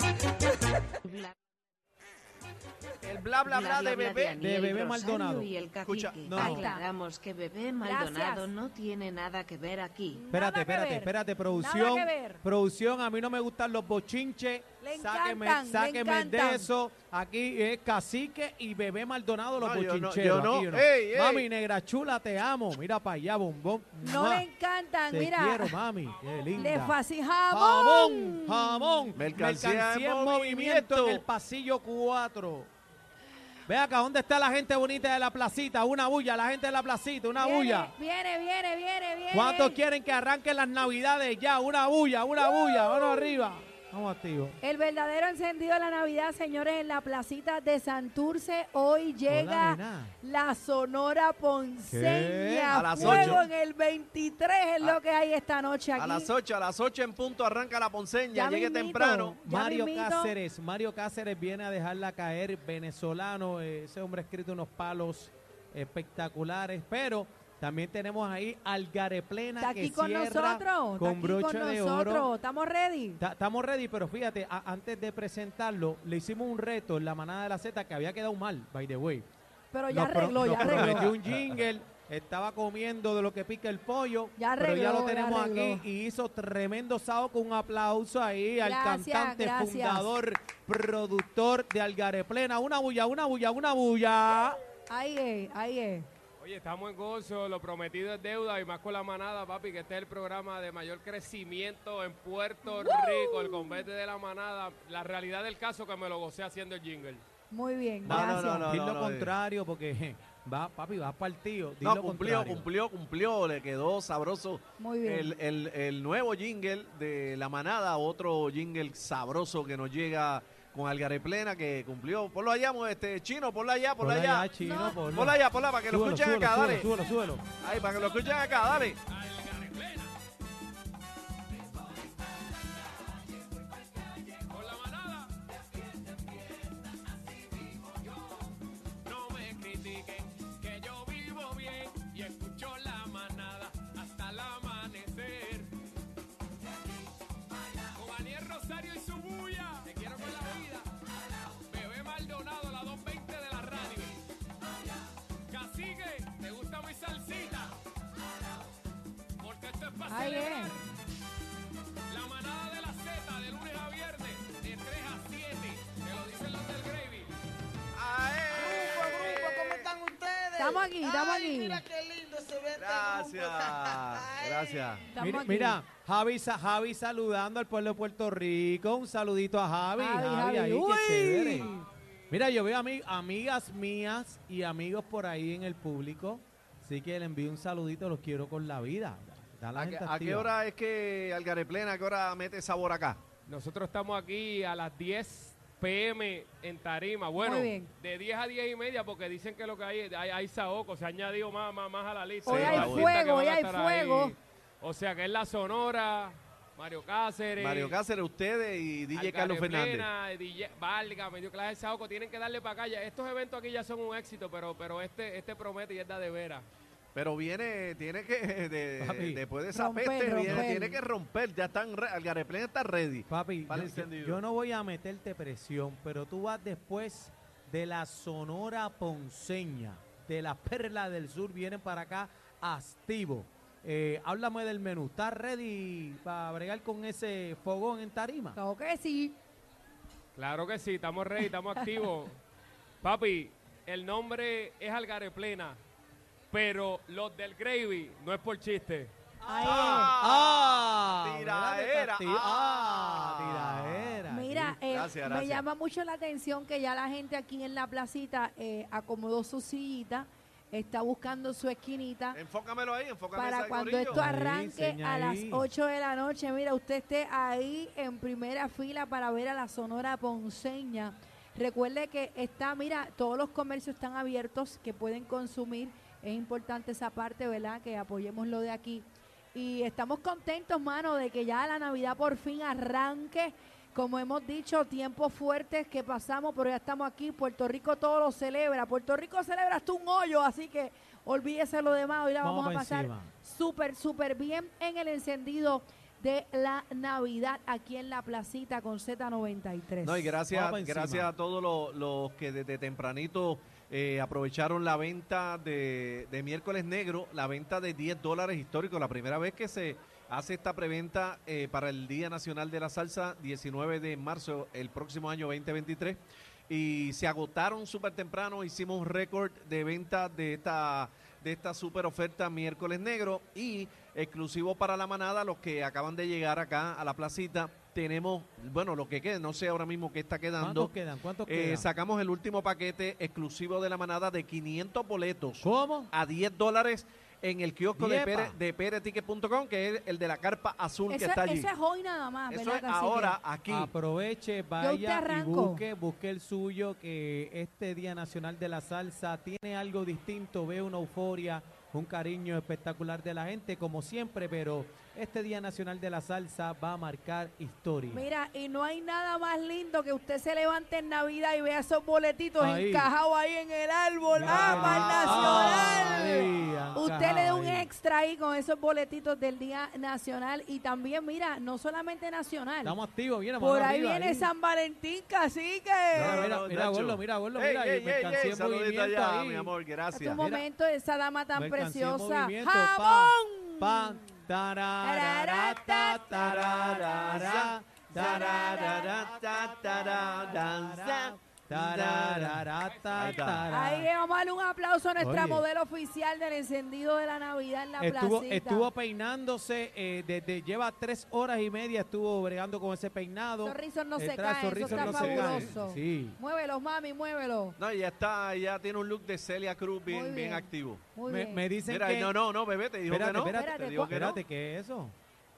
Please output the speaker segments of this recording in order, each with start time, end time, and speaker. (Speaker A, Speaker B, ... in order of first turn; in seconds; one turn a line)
Speaker A: 1.1-1.3
Speaker B: 3.0-4.5
Speaker A: 3.4-10.2
Speaker C: 4.4-5.5
Speaker B: 5.8-6.4
Speaker C: 6.2-6.7
Speaker D: 6.4-6.9
Speaker D: 7.8-8.5
Speaker D: 10.1-12.4
Speaker C: 10.3-24.5
Speaker D: 14.8-16.7
Speaker B: 19.6-21.5
Speaker D: 24.0-25.8
Speaker C: 25.1-27.0
Speaker D: 26.6-29.1
Speaker C: 27.5-32.7
Speaker B: 29.2-31.2
Speaker C: 33.7-37.9
Speaker D: 37.4-39.8
Speaker C: 39.3-44.6
Speaker D: 42.5-43.2
Speaker D: 44.6-56.3
Speaker C: 49.3-50.1
Speaker C: 51.9-53.5
Speaker B: 52.7-53.5
Speaker B: 56.0-59.4
Speaker D: 58.3-60.3
Speaker C: 59.4-72.3
Speaker D: 69.6-73.2
Speaker C: 73.2-79.3
Speaker D: 79.7-81.1
Speaker C: 79.9-94.6
Speaker B: 80.7-81.2
Speaker D: 84.4-85.8
Speaker D: 88.6-90.1
Speaker D: 94.9-96.1
Speaker E: 96.4-107.2
Speaker D: 102.7-103.8
Speaker D: 107.5-108.7
Speaker B: 108.0-109.3
Speaker C: 108.0-112.7
Speaker B: 111.8-124.5
Speaker D: 114.8-115.3
Speaker C: 124.0-127.5
Speaker D: 124.6-125.0
Speaker B: 125.1-126.9
Speaker B: 127.6-129.0
Speaker E: 127.7-130.1
Speaker E: 134.3-135.5
Speaker E: 137.3-138.4
Speaker E: 139.0-145.7
Speaker E: 147.9-150.9
Speaker E: 151.7-154.2
Speaker E: 155.5-157.8
Speaker E: 159.4-160.8
Speaker D: 160.1-160.8
Speaker E: 162.1-167.3
Speaker B: 167.9-169.9
Speaker E: 168.5-169.4
Speaker F: 168.6-174.9
Speaker D: 170.6-171.8
Speaker B: 172.8-175.1
Speaker D: 175.1-175.8
Speaker C: 175.2-181.7
Speaker D: 180.0-181.9
Speaker C: 182.3-190.6
Speaker B: 189.8-193.2
Speaker E: 193.5-208.0
Speaker D: 197.4-197.9
Speaker D: 202.4-204.3
Speaker B: 202.5-203.1
Speaker B: 207.6-210.1
Speaker E: 209.1-216.7
Speaker B: 217.1-224.4
Speaker C: 219.0-219.4
Speaker D: 219.7-221.0
Speaker C: 220.3-220.7
Speaker C: 223.3-238.6
Speaker D: 238.6-239.4
Speaker E: 240.4-242.4
Speaker E: 243.0-245.8
Speaker E: 246.5-249.1
Speaker C: 249.4-254.8
Speaker D: 249.4-250.1
Speaker B: 249.6-254.2
Speaker D: 254.3-262.4
Speaker B: 254.9-255.6
Speaker B: 262.3-264.2
Speaker D: 263.3-300.3
Speaker C: 264.1-265.7
Speaker C: 292.4-293.3
Speaker B: 300.0-330.9
Speaker C: 300.5-301.3
Speaker C: 330.6-331.9
Speaker B: 331.5-341.7
Speaker C: 335.6-336.1
Speaker C: 338.0-338.6
Speaker D: 341.1-343.4
Speaker B: 342.5-343.9
Speaker C: 343.7-358.3
Speaker D: 344.8-345.9
Speaker D: 358.1-373.0
Speaker C: 362.6-363.1
Speaker C: 364.3-367.9
Speaker B: 364.4-367.0
Speaker C: 372.8-374.5
Speaker D: 373.6-376.5
Speaker C: 376.1-379.7
Speaker B: 376.1-380.4
Speaker D: 380.1-384.4
Speaker C: 380.4-380.7
Speaker C: 381.5-394.1
Speaker D: 385.0-386.5
Speaker B: 386.3-392.6
Speaker D: 388.1-389.2
Speaker E: 392.8-393.5
Speaker B: 393.2-393.7
Speaker D: 393.7-398.9
Speaker C: 395.2-395.7
Speaker C: 398.0-406.4
Speaker D: 403.6-407.8
Speaker B: 404.8-405.7
Speaker B: 407.8-411.0
Speaker D: 410.1-411.6
Speaker C: 411.3-412.4
Speaker B: 411.9-414.4
Speaker C: 413.1-415.1
Speaker D: 413.4-414.4